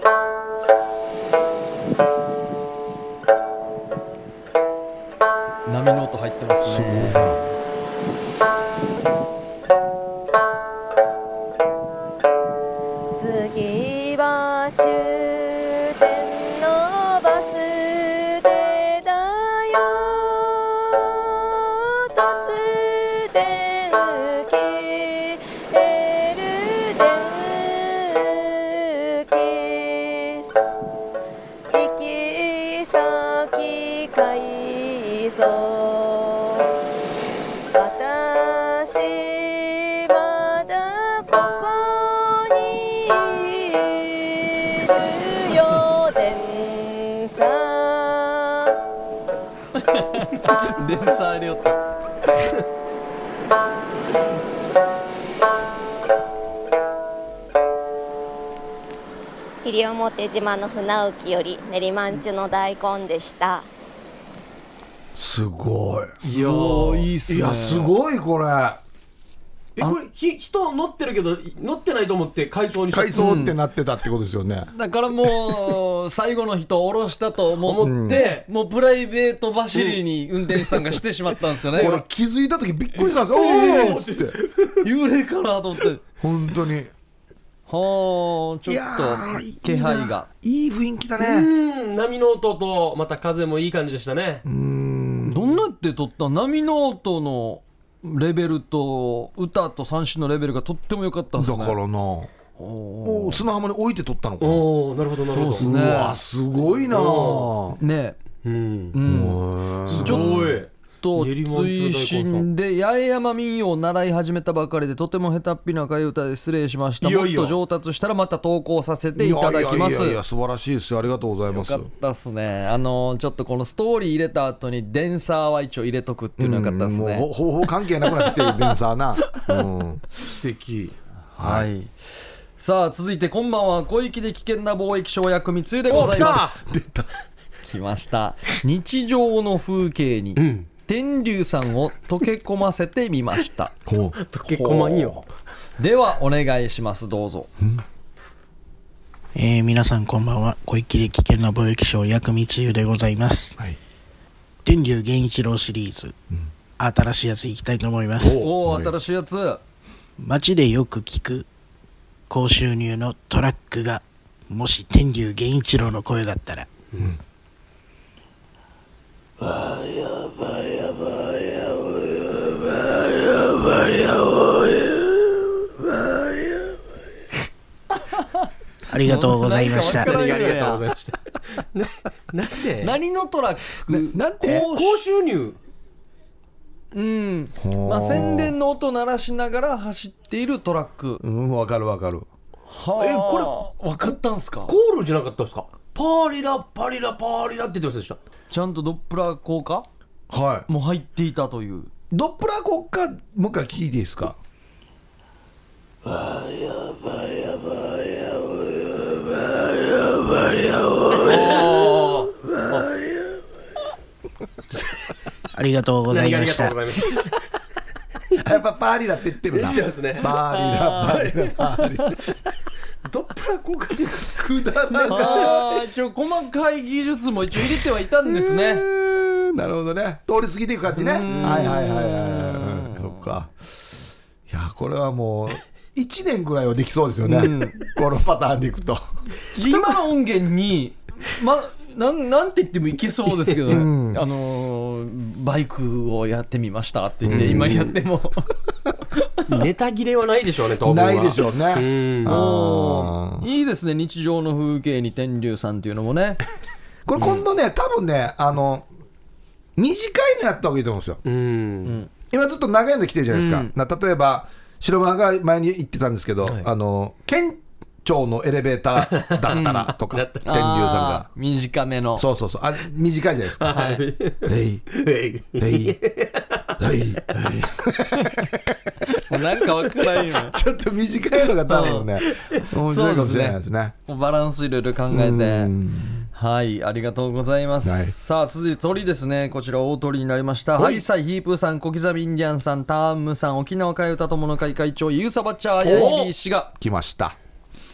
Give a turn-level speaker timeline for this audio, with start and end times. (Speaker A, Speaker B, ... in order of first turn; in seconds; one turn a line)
Speaker A: 5.7-7.4
Speaker B: 6.6-7.5
Speaker C: 13.1-30.5
Speaker C: 31.7-36.7
Speaker C: 37.7-48.8
Speaker A: 49.8-51.8
Speaker C: 59.6-63.7
Speaker B: 65.2-66.2
Speaker A: 66.2-67.9
Speaker D: 66.2-67.1
Speaker B: 67.3-68.8
Speaker D: 69.8-73.3
Speaker B: 72.9-74.7
Speaker A: 73.1-73.6
Speaker A: 74.7-82.0
Speaker D: 77.6-78.4
Speaker B: 77.8-78.2
Speaker D: 79.8-80.0
Speaker B: 81.7-84.4
Speaker D: 81.7-82.0
Speaker D: 83.0-84.8
Speaker A: 84.8-86.0
Speaker B: 86.2-86.9
Speaker A: 87.7-90.3
Speaker B: 88.7-91.5
Speaker D: 91.2-94.4
Speaker B: 94.5-95.6
Speaker A: 95.2-101.8
Speaker B: 101.4-102.3
Speaker A: 102.6-103.4
Speaker B: 103.0-104.7
Speaker D: 104.4-105.7
Speaker A: 105.3-106.2
Speaker B: 105.6-107.8
Speaker D: 106.9-107.5
Speaker A: 107.8-108.2
Speaker D: 108.4-109.0
Speaker A: 108.9-109.4
Speaker B: 109.0-110.6
Speaker D: 109.9-112.5
Speaker A: 109.9-110.3
Speaker A: 111.0-120.2
Speaker D: 117.0-117.6
Speaker B: 119.1-121.9
Speaker A: 121.5-127.3
Speaker B: 126.4-130.0
Speaker A: 128.0-128.7
Speaker D: 130.2-130.9
Speaker A: 131.3-136.6
Speaker B: 131.4-131.7
Speaker B: 135.9-137.1
Speaker D: 135.9-136.6
Speaker A: 137.7-143.7
Speaker D: 140.4-140.7
Speaker B: 143.9-144.2
Speaker D: 144.2-145.2
Speaker A: 144.5-145.2
Speaker A: 145.8-147.5
Speaker E: 149.3-153.6
Speaker E: 154.7-156.2
Speaker E: 156.8-158.4
Speaker B: 158.2-158.9
Speaker A: 158.4-159.6
Speaker E: 160.2-161.5
Speaker E: 162.3-166.7
Speaker E: 178.9-180.1
Speaker A: 179.1-180.9
Speaker D: 179.5-183.0
Speaker A: 182.8-185.0
Speaker B: 183.9-184.6
Speaker D: 184.4-185.6
Speaker A: 186.9-191.2
Speaker B: 187.6-188.5
Speaker B: 191.2-192.3
Speaker A: 192.7-194.7
Speaker D: 194.7-198.2
Speaker A: 198.5-199.9
Speaker B: 200.3-200.7
Speaker A: 200.7-201.9
Speaker B: 202.1-204.4
Speaker D: 211.2-212.9
Speaker E: 215.6-216.8
Speaker D: 216.1-217.4
Speaker B: 218.4-222.2
Speaker D: 219.5-221.5
Speaker D: 223.1-225.8
Speaker B: 224.3-225.6
Speaker A: 225.1-228.9
Speaker B: 228.2-233.5
Speaker A: 230.9-233.2
Speaker D: 231.3-231.7
Speaker B: 234.5-239.0
Speaker A: 237.2-237.9
Speaker A: 239.5-248.5
Speaker D: 239.6-240.0
Speaker B: 243.7-244.2
Speaker B: 247.3-248.0
Speaker D: 247.3-247.7
Speaker A: 249.2-249.5
Speaker D: 249.5-252.4
Speaker B: 250.8-253.5
Speaker A: 252.2-256.4
Speaker B: 257.1-258.9
Speaker B: 259.8-261.2
Speaker D: 261.2-262.0
Speaker B: 262.3-271.3
Speaker A: 263.4-263.7
Speaker D: 269.1-270.4
Speaker A: 270.4-272.3
Speaker B: 272.2-273.8
Speaker D: 273.6-276.7
Speaker A: 273.7-274.0
Speaker B: 274.5-274.9
Speaker B: 275.6-276.0
Speaker B: 276.8-278.8
Speaker A: 279.1-280.6
Speaker B: 280.3-283.9
Speaker A: 281.7-282.1
Speaker D: 282.4-282.6
Speaker A: 282.9-285.7
Speaker B: 285.1-286.3
Speaker A: 286.3-296.7
Speaker B: 287.8-288.1
Speaker B: 295.8-296.1
Speaker D: 295.9-296.3
Speaker B: 296.8-297.4